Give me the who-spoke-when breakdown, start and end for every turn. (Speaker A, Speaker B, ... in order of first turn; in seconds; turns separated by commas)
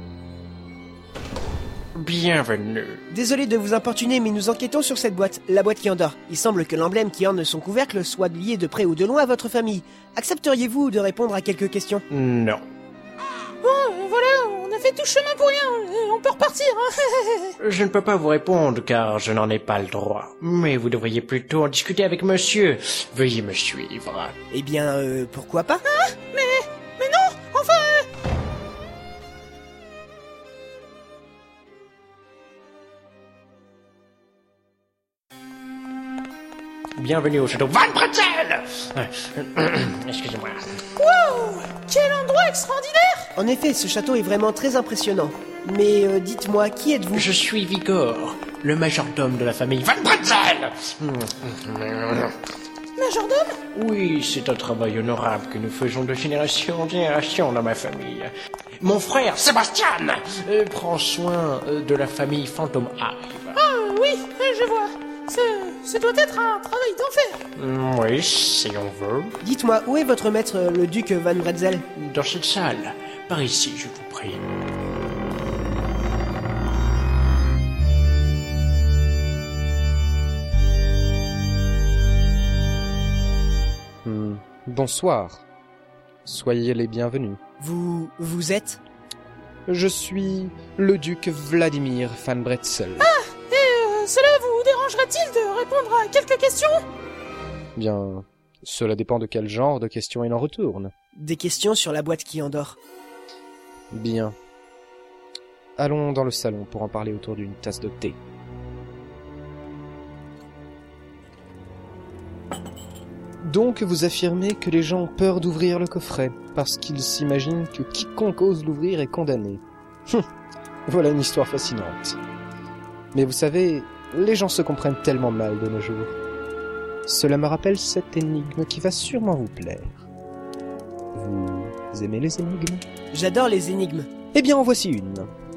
Speaker A: 1.9-3.0, Speaker B: 3.1-12.0, Speaker A: 12.1-12.6, Speaker C: 13.6-17.5, Speaker A: 17.6-24.4, Speaker B: 24.5-25.8, Speaker C: 25.9-28.1, Speaker A: 37.0-40.6, Speaker C: 41.0-43.3, Speaker B: 43.4-47.3, Speaker A: 47.1-52.3, Speaker C: 53.0-53.6, Speaker A: 53.7-63.6, Speaker C: 63.5-67.4, Speaker A: 67.6-69.4, Speaker B: 69.4-71.8, Speaker A: 72.0-74.4, Speaker D: 84.0-85.4, Speaker D: 86.2-87.4, Speaker B: 87.6-88.8, Speaker D: 89.7-93.1, Speaker C: 93.0-96.8, Speaker D: 97.8-100.9, Speaker B: 101.2-102.8, Speaker D: 103.9-104.3, Speaker D: 105.8-108.2, Speaker D: 113.4-120.2, Speaker D: 120.9-122.2, Speaker D: 123.1-126.2, Speaker D: 127.1-129.9, Speaker D: 131.2-132.8, Speaker B: 133.1-134.1, Speaker D: 134.3-135.3